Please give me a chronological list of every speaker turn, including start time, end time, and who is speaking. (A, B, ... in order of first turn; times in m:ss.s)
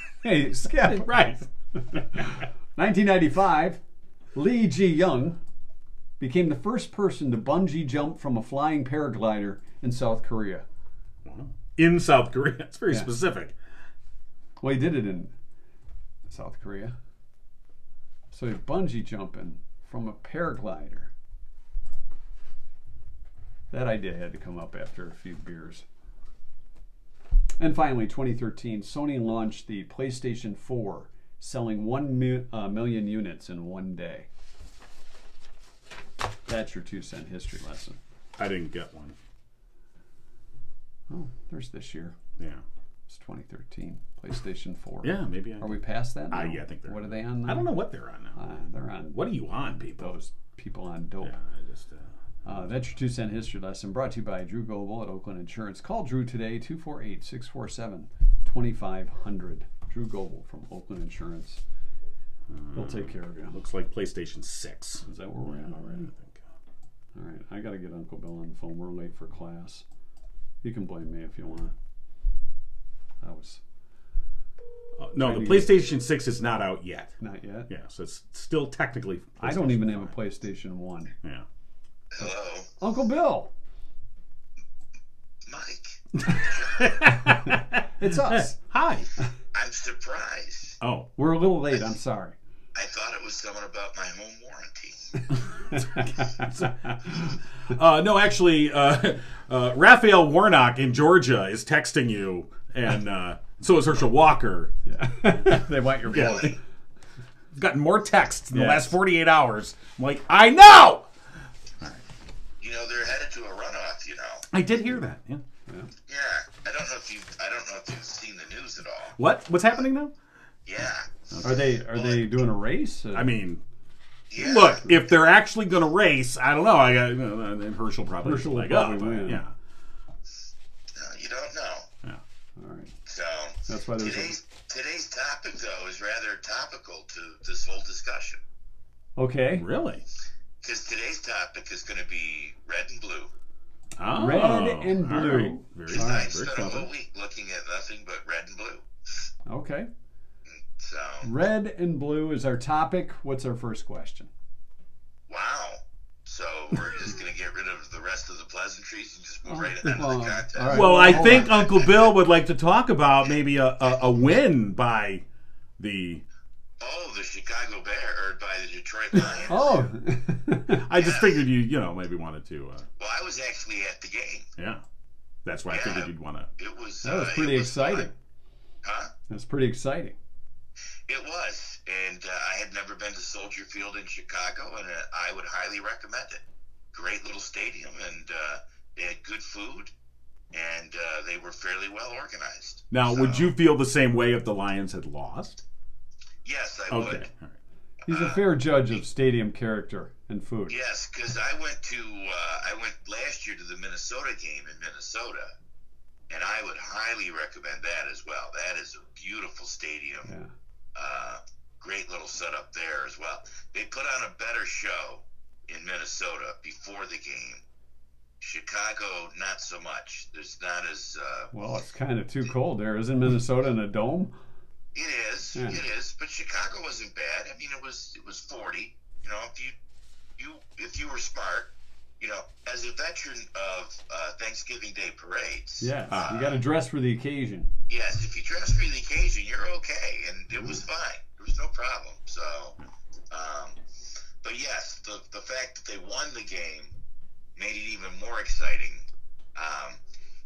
0:00.2-0:01.1 A
0:00.8-0:01.5 B
0:01.9-0:03.8 A
0:04.4-0:05.4 A
0:06.2-0:10.7 A
0:11.2-0:13.5 B
0:14.6-0:15.3 A
0:16.3-0:17.0 A
0:18.3-0:21.1 A
0:23.7-0:25.8 A
0:27.6-0:34.3 A
0:36.5-0:38.0 A
0:38.4-0:39.2 B
0:41.1-0:42.2 A
0:42.4-0:42.6 B
0:43.1-0:47.8 A
0:45.0-0:48.4 B
0:48.4-0:51.4 A
0:49.1-0:50.2 B
0:51.2-0:52.1 B
0:52.4-1:01.6 A
1:02.5-1:06.4 B
1:02.7-1:03.6 A
1:05.0-1:06.1 A
1:07.2-1:09.8 A
1:10.6-1:11.7 A
1:13.2-1:13.6 A
1:15.0-1:17.2 B
1:15.2-1:15.8 A
1:17.2-1:17.7 A
1:17.7-1:20.2 B
1:19.4-1:21.1 A
1:22.1-1:22.7 C
1:22.8-1:23.5 A
1:25.5-1:27.0 C
1:26.2-1:29.1 B
1:27.1-1:28.6 A
1:29.5-1:30.8 C
1:30.8-1:31.1 B
1:31.2-1:32.4 A
1:32.8-1:35.1 C
1:35.7-1:36.9 A
1:36.4-1:44.7 B
1:44.9-1:46.6 A
1:46.1-1:46.5 B
1:46.1-1:46.6 C
1:47.5-1:51.1 B
1:48.5-1:49.0 A
1:52.6-1:54.4 C
1:54.5-1:55.4 B
1:55.7-1:55.9 A
1:56.1-1:59.2 C
1:59.2-2:00.2 B
2:00.7-2:02.4 C
2:00.8-2:01.8 B
2:01.4-2:03.3 A
2:03.1-2:03.6 B
2:04.3-2:04.9 C
2:04.4-2:09.5 B
2:08.2-2:09.4 A
2:11.0-2:11.9 C
2:12.6-2:13.0 A
2:13.1-2:18.4 C
2:13.7-2:14.4 A
2:19.2-2:19.7 A
2:19.6-2:20.0 B
2:20.6-2:23.3 C
2:24.0-2:26.9 B
2:24.1-2:26.3 A
2:25.9-2:29.3 C
2:29.5-2:29.9 A
2:30.5-2:31.3 C
2:31.2-2:34.3 A
2:35.3-2:42.1 C
2:39.5-2:41.6 A
2:40.7-2:45.2 B
2:45.8-2:46.2 B
2:46.8-2:49.9 C
2:49.4-2:50.8 A
2:50.7-2:52.9 B
2:51.0-2:51.4 C
2:53.0-2:54.5 C
2:54.6-2:54.8 B
2:55.4-2:56.5 B
2:55.7-2:58.1 C
2:57.0-2:58.1 A
2:58.8-2:59.1 C
2:59.3-3:00.2 A
3:01.1-3:06.4 C
3:06.9-3:09.9 C
3:10.5-3:13.5 C
3:12.9-3:15.6 B
3:16.4-3:17.3 C
3:16.9-3:17.6 B
3:18.0-3:18.5 C
3:18.1-3:20.8 A
3:20.7-3:25.5 C
3:26.3-3:30.3 C
3:30.2-3:30.5 A
3:31.0-3:37.6 C
3:38.4-3:41.5 C
3:41.5-3:44.3 A
3:45.0-3:49.7 C
3:45.6-3:45.8 A
3:50.4-3:56.6 C
3:55.8-3:57.7 A
3:56.1-3:56.4 B
3:57.9-4:02.8 C
4:03.3-4:03.8 C
4:04.4-4:06.9 C
4:07.6-4:09.0 C
4:09.6-4:10.0 C